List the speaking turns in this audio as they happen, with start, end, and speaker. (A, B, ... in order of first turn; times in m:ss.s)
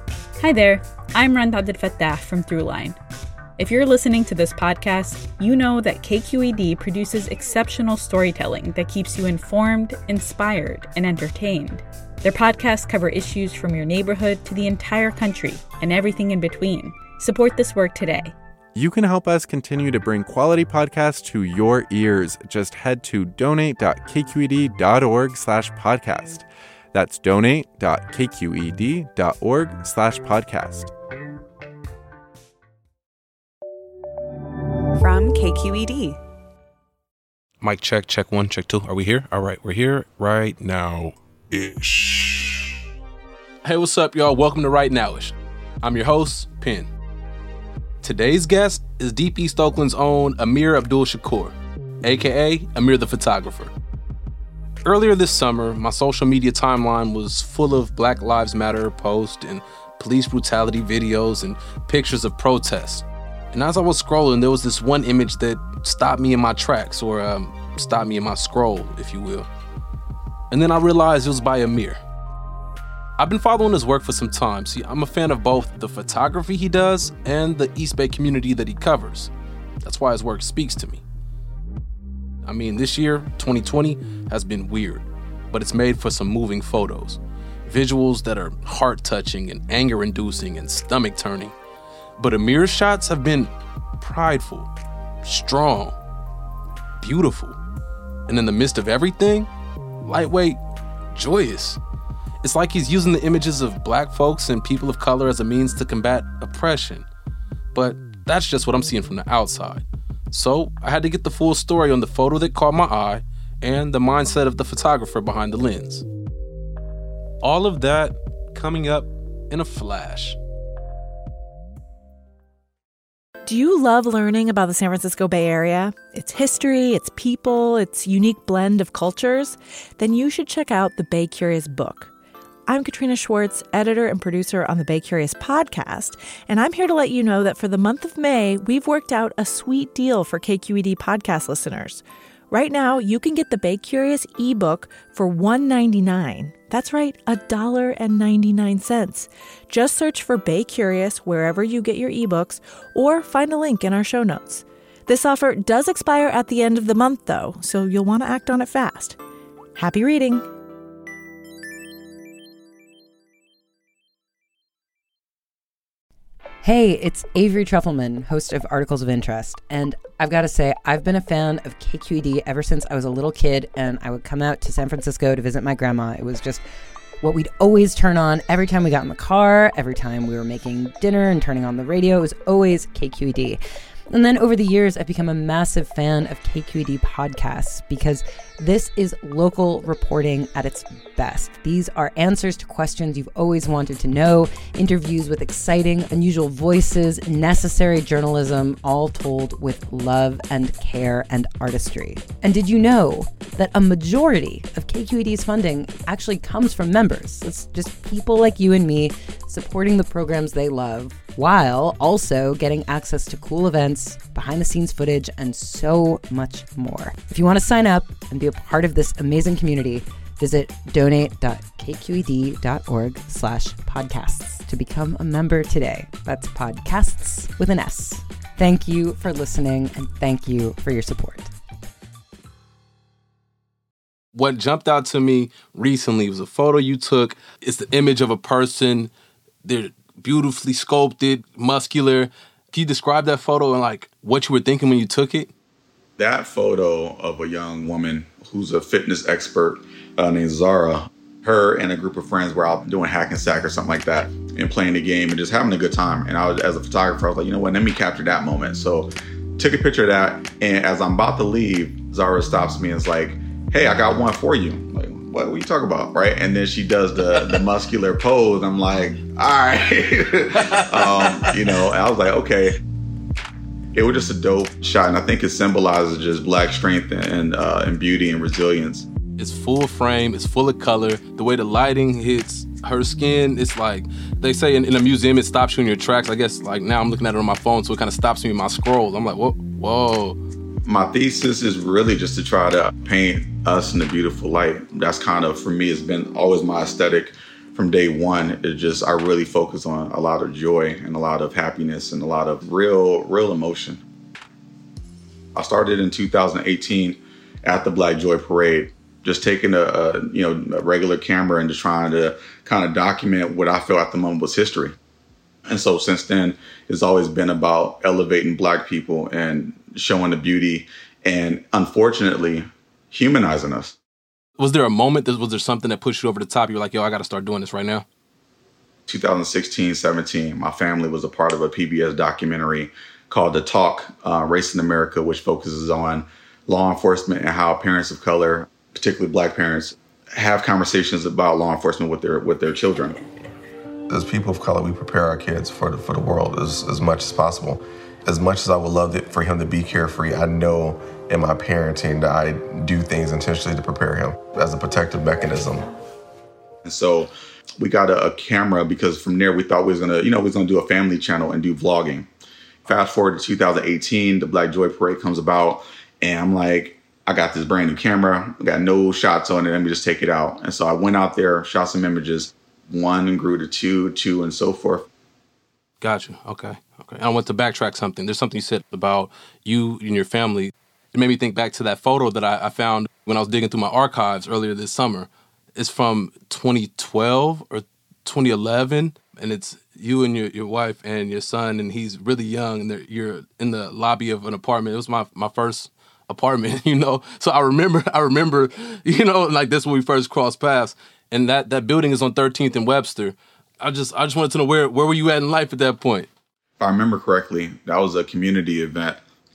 0:00.4-0:03.0 A
0:03.6-0:18.3 A
0:18.7-0:30.9 B
0:37.6-0:41.1 C
0:43.6-0:46.9 C
0:48.0-0:53.7 C
0:54.8-1:09.5 C
1:10.5-1:12.0 C
1:13.2-1:19.3 C
1:19.8-1:21.0 C
1:22.4-1:31.5 C
1:32.2-1:34.7 C
1:35.2-1:36.0 C
1:37.0-1:37.6 C
1:38.3-1:39.5 C
1:40.0-1:40.6 C
1:41.1-1:41.8 C
1:42.4-1:47.0 C
1:47.7-1:56.0 C
1:57.4-2:00.4 C
2:03.4-2:12.1 D
2:12.7-2:39.2 D
2:39.8-2:40.4 D
2:46.6-2:56.6 E
2:57.2-3:03.6 E
3:04.1-3:51.5 E
3:54.3-3:59.1 C
3:59.6-4:05.5 C
4:06.2-4:32.8 F
4:30.7-4:31.4 C
4:33.9-4:39.1 F
4:39.4-4:50.4 C
4:50.8-5:04.0 F
5:05.6-5:14.9 F
5:15.7-5:24.0 F
5:24.6-5:28.0 C
5:29.1-5:43.2 F
5:44.1-5:55.8 G
5:56.8-6:02.3 F
6:02.8-6:15.1 F
6:16.0-6:46.3 C
6:46.8-6:49.2 F